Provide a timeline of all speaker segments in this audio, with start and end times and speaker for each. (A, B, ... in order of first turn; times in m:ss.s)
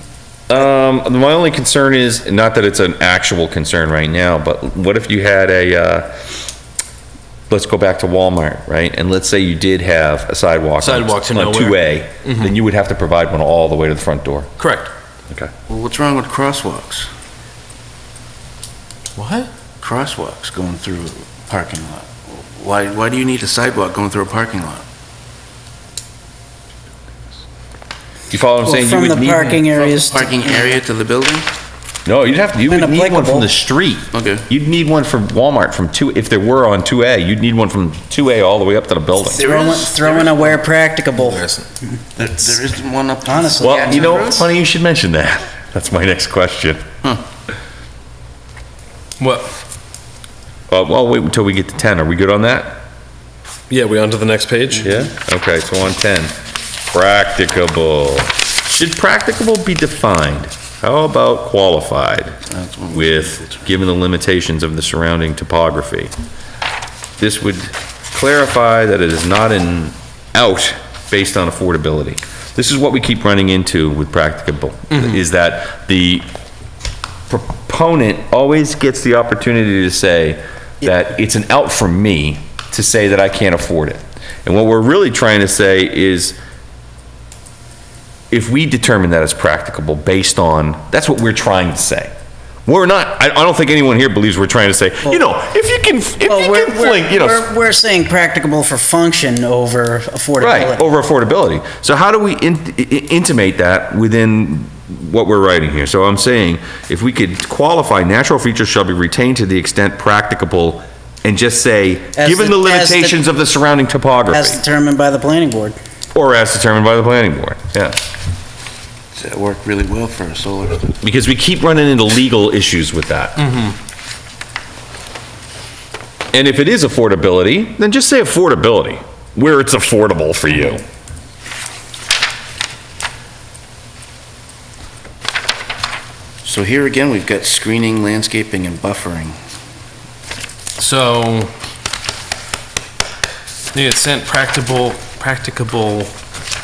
0:00.5-0:06.1 A
0:07.5-0:14.5 A
0:10.8-0:12.5 B
0:14.6-0:14.9 B
0:15.7-0:17.1 C
0:19.2-0:19.5 B
0:19.8-0:24.8 C
0:28.3-0:29.7 A
0:28.6-0:30.8 D
0:29.8-0:31.5 C
0:32.1-0:39.4 A
0:32.7-0:33.5 D
0:34.1-0:34.5 C
0:39.3-0:41.4 D
0:39.3-0:40.5 C
0:41.2-0:41.7 B
0:42.2-0:44.5 C
0:43.2-0:44.4 D
0:43.6-0:46.8 A
0:49.2-0:49.5 B
0:50.7-0:52.8 A
0:53.7-0:55.1 B
0:54.8-0:56.3 A
0:56.9-1:02.4 A
1:02.5-1:03.6 C
1:02.9-1:06.1 A
1:07.2-1:16.3 A
1:17.3-1:26.4 A
1:28.3-1:32.1 A
1:32.7-1:37.5 A
1:36.2-1:40.9 D
1:40.4-1:54.6 A
1:52.2-1:53.2 D
1:54.3-1:55.8 D
1:56.1-1:58.0 A
1:59.1-2:01.0 C
2:01.0-2:03.5 A
2:03.4-2:03.7 B
2:06.3-2:10.8 A
2:16.4-2:19.4 C
2:20.8-2:21.5 B
2:23.7-2:26.1 B